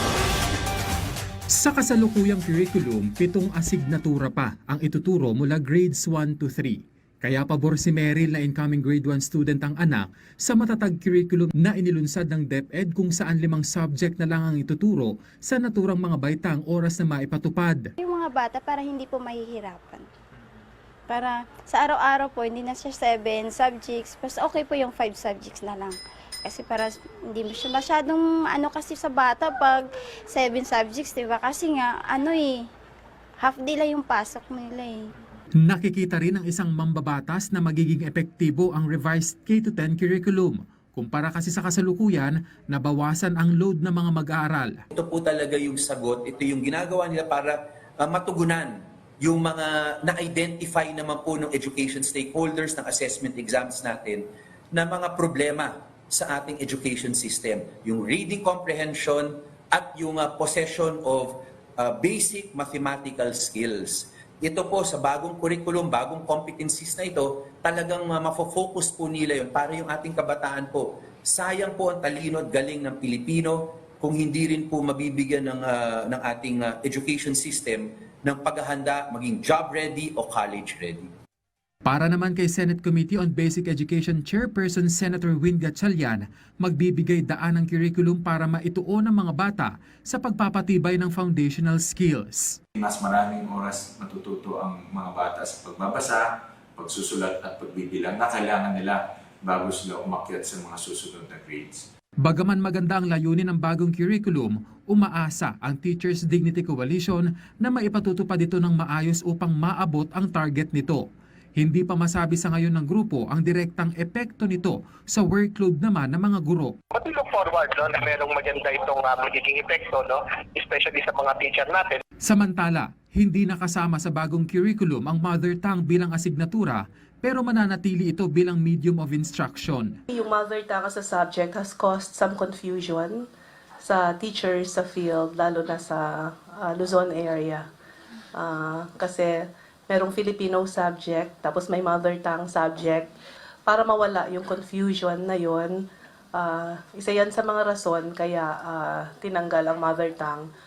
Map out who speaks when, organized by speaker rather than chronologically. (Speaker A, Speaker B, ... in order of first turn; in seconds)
Speaker A: 1.5-17.9, 35.6-44.8, 81.8-92.6, 102.2-111.0, 111.6-116.8, 122.2-130.0
Speaker B: 18.0-20.1, 21.1-32.7, 33.4-35.1
Speaker C: 45.0-81.1
Speaker D: 92.8-101.9
Speaker E: 117.0-122.0
Speaker F: 130.1-133.2, 133.8-137.7, 138.3-143.1, 143.7-150.5